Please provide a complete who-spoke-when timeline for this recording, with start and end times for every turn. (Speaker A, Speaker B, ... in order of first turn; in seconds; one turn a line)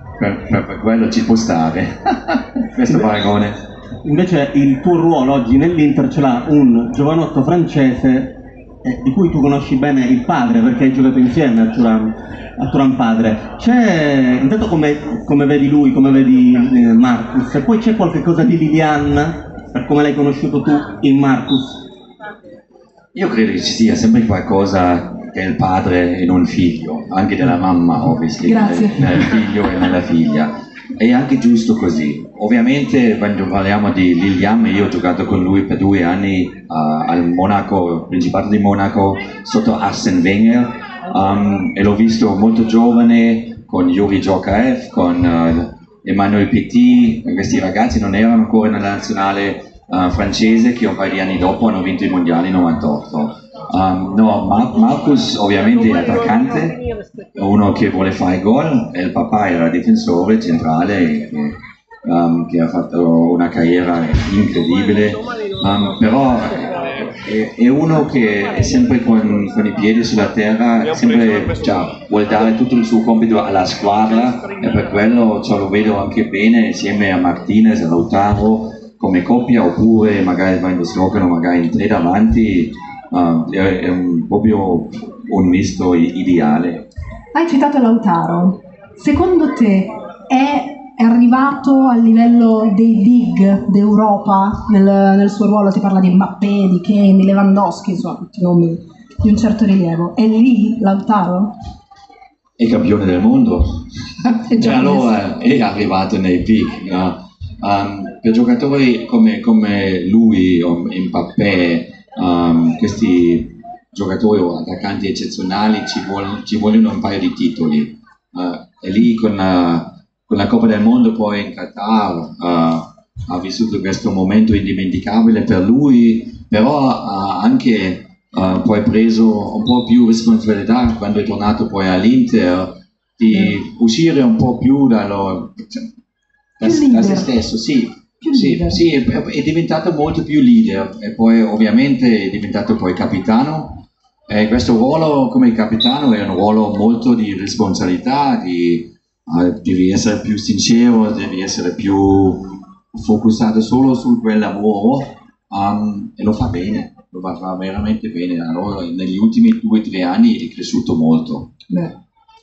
Speaker A: 0.2-3.6
Speaker B: 4.0-21.8
Speaker A: 23.1-56.8
Speaker C: 28.4-29.1
Speaker A: 57.4-86.9
Speaker C: 87.3-101.5
Speaker A: 102.6-103.9
Speaker C: 104.2-105.1
Speaker A: 104.5-135.9
Speaker A: 136.6-161.5
Speaker C: 136.6-137.3
Speaker C: 138.2-138.8